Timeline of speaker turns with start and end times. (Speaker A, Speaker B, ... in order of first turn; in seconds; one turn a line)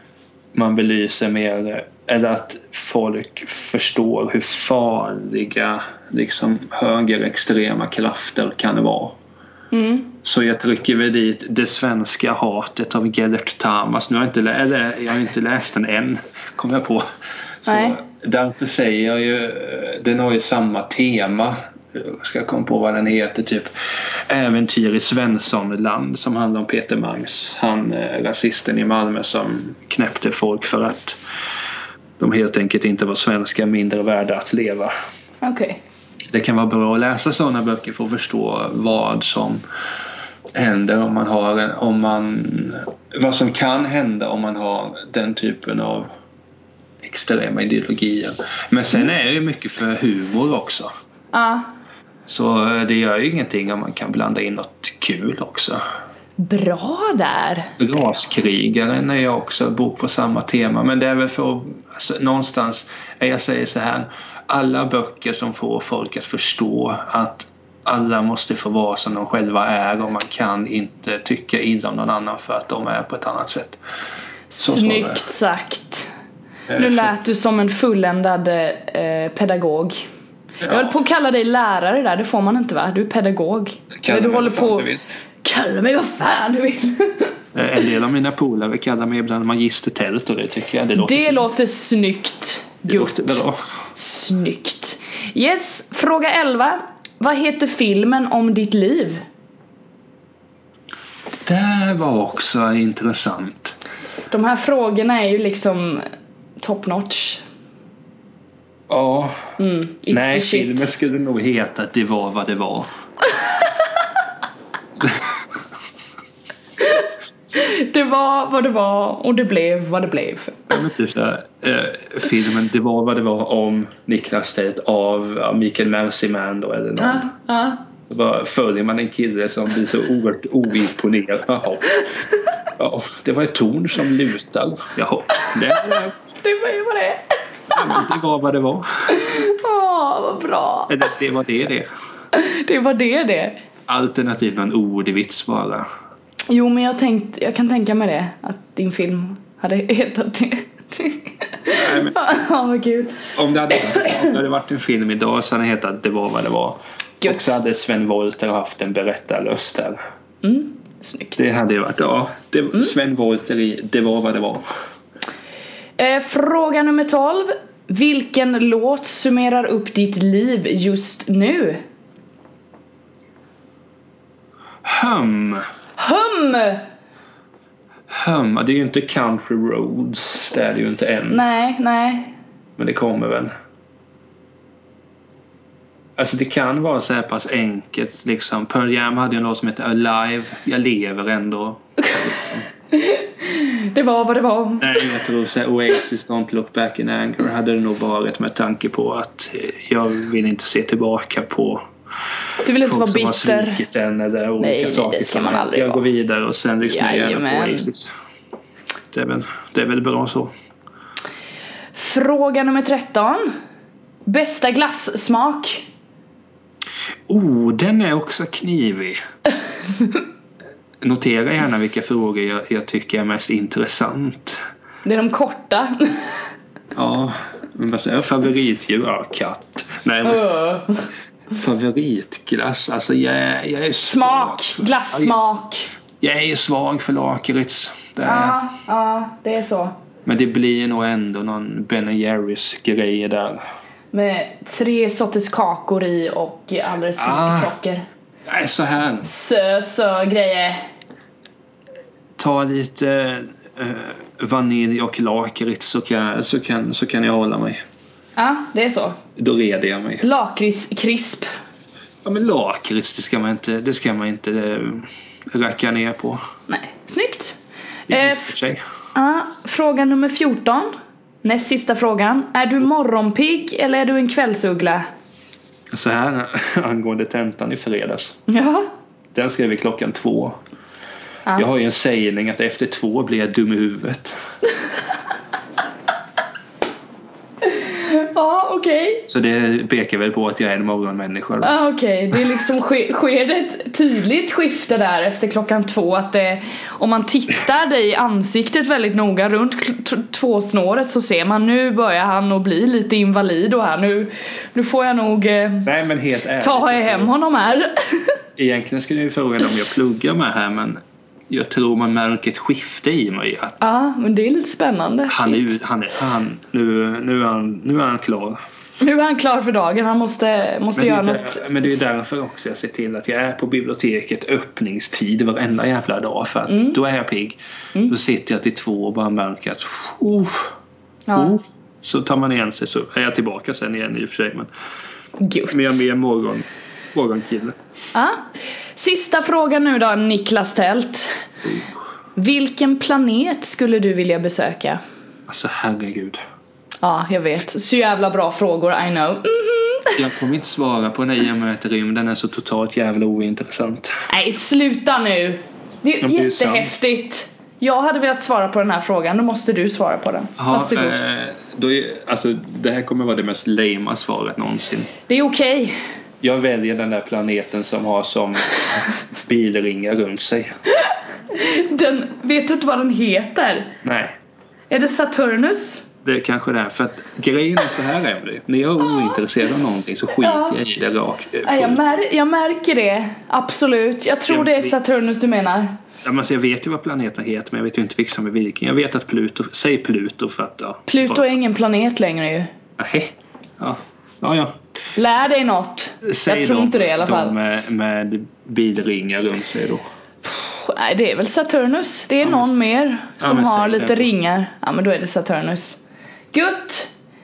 Speaker A: 0.5-9.2
Speaker B: 9.7-10.1
Speaker A: 10.2-17.0
Speaker A: 17.6-23.7
Speaker B: 17.7-18.0
Speaker A: 24.3-31.2
Speaker A: 32.2-34.9
Speaker B: 35.4-35.8
Speaker A: 36.3-39.6
Speaker A: 40.5-46.1
Speaker A: 47.0-50.9
Speaker B: 51.3-51.7
Speaker A: 52.3-55.8
Speaker B: 56.4-57.7
Speaker A: 57.8-73.8
Speaker B: 74.5-76.1
Speaker A: 74.6-75.2
Speaker A: 76.7-77.1
Speaker B: 76.7-80.0
Speaker A: 80.6-80.9
Speaker B: 80.7-84.9
Speaker A: 84.0-85.0
Speaker B: 85.4-87.3
Speaker A: 87.5-91.4
Speaker B: 91.0-93.4
Speaker A: 92.8-93.6
Speaker B: 93.9-99.2
Speaker A: 101.4-103.8
Speaker B: 104.3-106.0
Speaker B: 106.6-107.4
Speaker A: 108.9-109.4
Speaker B: 109.6-110.9
Speaker A: 110.1-112.9
Speaker B: 116.8-120.7
Speaker A: 120.7-127.3
Speaker B: 127.0-127.8
Speaker A: 128.1-131.9
Speaker A: 132.8-136.1
Speaker B: 136.4-138.0
Speaker A: 137.7-139.1
Speaker B: 139.1-140.9
Speaker A: 140.9-141.9
Speaker B: 142.3-143.6
Speaker A: 143.9-145.8
Speaker B: 146.5-154.3
Speaker A: 151.7-152.2
Speaker A: 153.3-160.0
Speaker B: 157.2-157.6
Speaker B: 160.4-161.5
Speaker A: 161.4-164.6
Speaker B: 166.0-171.8
Speaker A: 174.8-175.6
Speaker B: 176.0-176.8
Speaker A: 178.1-181.4
Speaker B: 181.3-182.3
Speaker A: 182.8-183.5
Speaker A: 186.2-192.7
Speaker B: 192.9-195.0
Speaker A: 194.8-201.8
Speaker B: 202.6-203.8
Speaker A: 202.8-208.1
Speaker B: 204.6-206.0
Speaker B: 206.8-207.9
Speaker A: 209.1-210.5
Speaker B: 211.9-213.5
Speaker B: 214.2-215.8
Speaker A: 217.3-219.2
Speaker A: 221.0-224.6
Speaker B: 225.0-226.5
Speaker A: 226.9-230.6
Speaker B: 230.2-231.1
Speaker A: 231.5-235.3
Speaker B: 234.0-235.9
Speaker A: 236.2-238.6
Speaker B: 238.2-239.9
Speaker A: 240.2-243.6
Speaker B: 244.1-248.0
Speaker A: 247.2-247.7
Speaker A: 248.4-249.3
Speaker B: 249.2-250.8
Speaker A: 252.4-257.8
Speaker B: 258.4-259.2
Speaker A: 259.4-260.2
Speaker B: 260.2-261.5
Speaker A: 262.2-266.4
Speaker B: 266.7-267.6
Speaker A: 268.1-268.8
Speaker B: 268.1-268.5
Speaker B: 269.1-270.9
Speaker B: 271.4-275.1
Speaker A: 275.9-278.4
Speaker B: 278.5-278.9
Speaker A: 279.3-280.6
Speaker A: 281.5-284.4
Speaker B: 287.6-289.3
Speaker A: 289.3-291.7
Speaker B: 291.6-305.9
Speaker A: 305.8-307.3
Speaker B: 306.6-308.4
Speaker A: 308.6-313.8
Speaker B: 313.8-315.7
Speaker A: 315.3-318.6
Speaker B: 319.0-322.0
Speaker A: 320.9-330.7
Speaker B: 326.7-327.0
Speaker B: 331.3-331.6
Speaker A: 331.3-334.7
Speaker B: 335.4-336.0
Speaker A: 335.7-337.8
Speaker B: 338.1-338.4
Speaker B: 338.9-341.3
Speaker B: 342.4-345.0
Speaker A: 345.5-346.4
Speaker B: 347.0-350.2
Speaker A: 350.1-354.1
Speaker B: 354.3-361.2
Speaker A: 356.2-356.9
Speaker A: 360.6-365.1
Speaker B: 365.3-366.0
Speaker A: 366.4-370.8
Speaker B: 371.5-373.9
Speaker A: 374.0-374.3
Speaker B: 374.9-376.1
Speaker A: 376.2-382.1
Speaker B: 380.4-380.7
Speaker B: 381.6-386.0
Speaker A: 384.5-384.9
Speaker A: 386.2-391.4
Speaker B: 391.1-392.7
Speaker A: 393.0-394.8
Speaker B: 395.1-397.5
Speaker A: 396.2-400.0
Speaker B: 400.4-406.0
Speaker A: 402.4-402.7
Speaker A: 403.4-404.3
Speaker B: 406.5-407.1